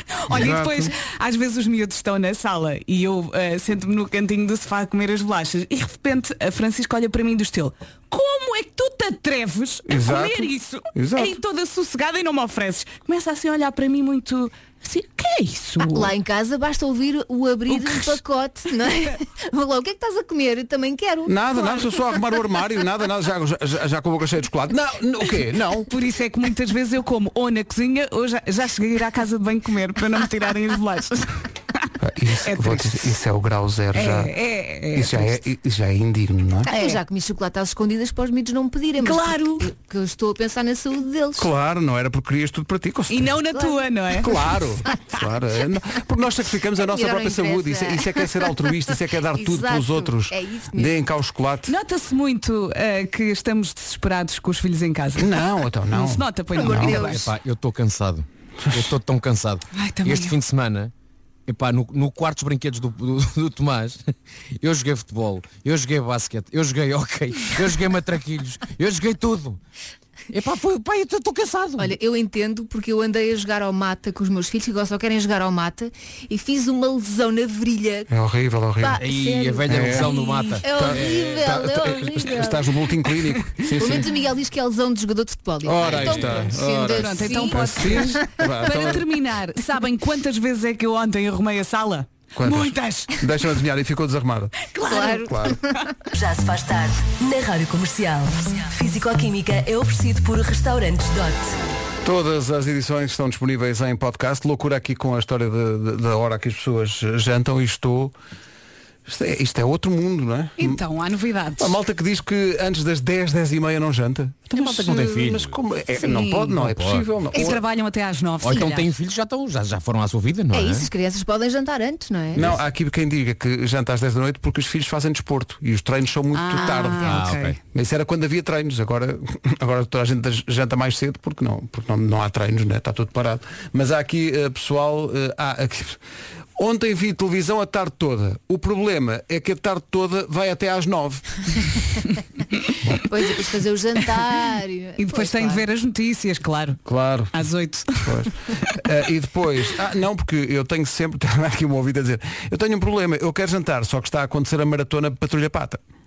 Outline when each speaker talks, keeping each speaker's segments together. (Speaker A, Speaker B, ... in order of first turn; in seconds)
Speaker A: 0.2-16.1, 17.7-18.2, 25.9-31.4, 32.5-32.9, 33.9-35.3, 36.7-37.0, 39.0-39.7, 43.1-44.4, 51.7-57.1, 59.7-60.4, 80.2-80.6, 86.0-93.3, 94.7-95.3, 110.6-111.8, 116.0-116.5, 117.3-118.9, 126.3-127.5, 145.0-146.8, 147.3-148.3
Speaker B: 0.3-0.9, 9.9-11.4, 21.2-25.9, 32.0-34.3, 34.9-36.7, 41.4-43.3, 44.2-51.7, 55.1-57.1, 78.1-79.0, 79.7-80.1, 80.7-84.1, 85.6-89.1, 92.3-95.6, 102.0-108.1, 109.0-110.8, 111.6-117.6, 122.3-136.0, 136.6-141.4, 146.8-147.5, 148.0-155.8
Speaker C: 15.9-21.9, 36.6-41.5, 43.5-43.9, 46.8-48.5, 49.3-51.0, 56.5-57.3, 71.8-78.1, 78.8-82.7, 83.7-88.2, 94.8-95.9, 120.5-122.5, 142.9-145.6
Speaker D: 56.9-60.9, 61.5-69.6, 70.3-71.9, 79.0-81.5, 85.8-86.2, 114.5-115.5, 116.6-117.1, 118.4-120.9, 127.0-127.6
Speaker E: 96.1-101.6